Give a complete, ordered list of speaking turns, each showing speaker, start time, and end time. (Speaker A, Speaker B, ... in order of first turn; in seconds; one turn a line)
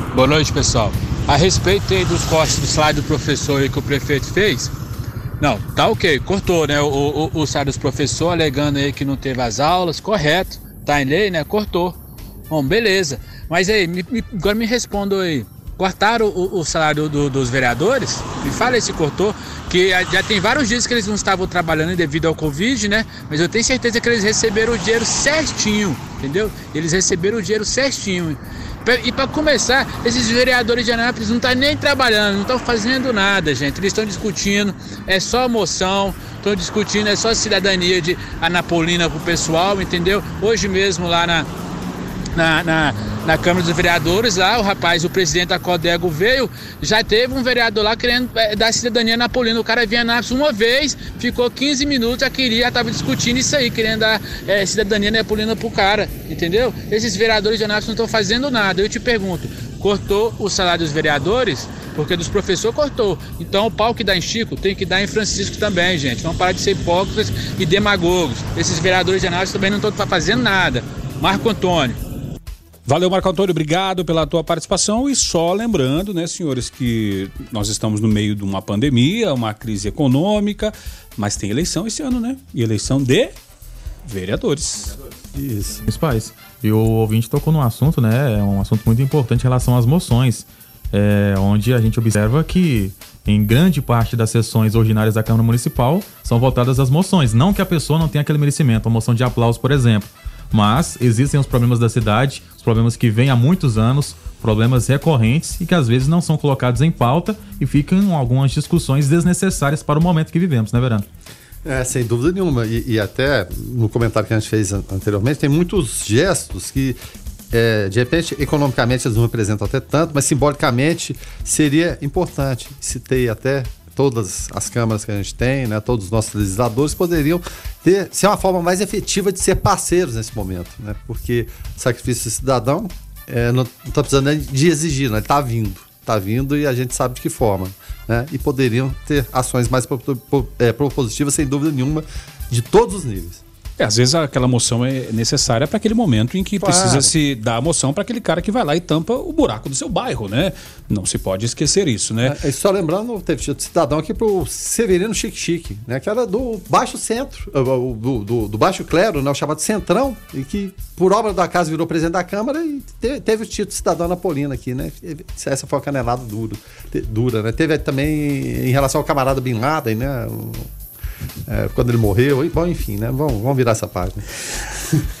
Speaker A: 0.1-4.7
Speaker A: 5.4-12.0
Speaker A: 12.5-41.5
Speaker A: 42.4-72.0
Speaker B: 72.8-83.3
Speaker B: 84.0-84.9
Speaker C: 85.3-85.8
Speaker D: 85.9-111.0
Speaker C: 111.6-117.0
Speaker C: 117.5-143.4
Speaker B: 143.8-152.3
Speaker C: 146.6-147.1
Speaker C: 152.2-170.7
Speaker C: 171.5-174.2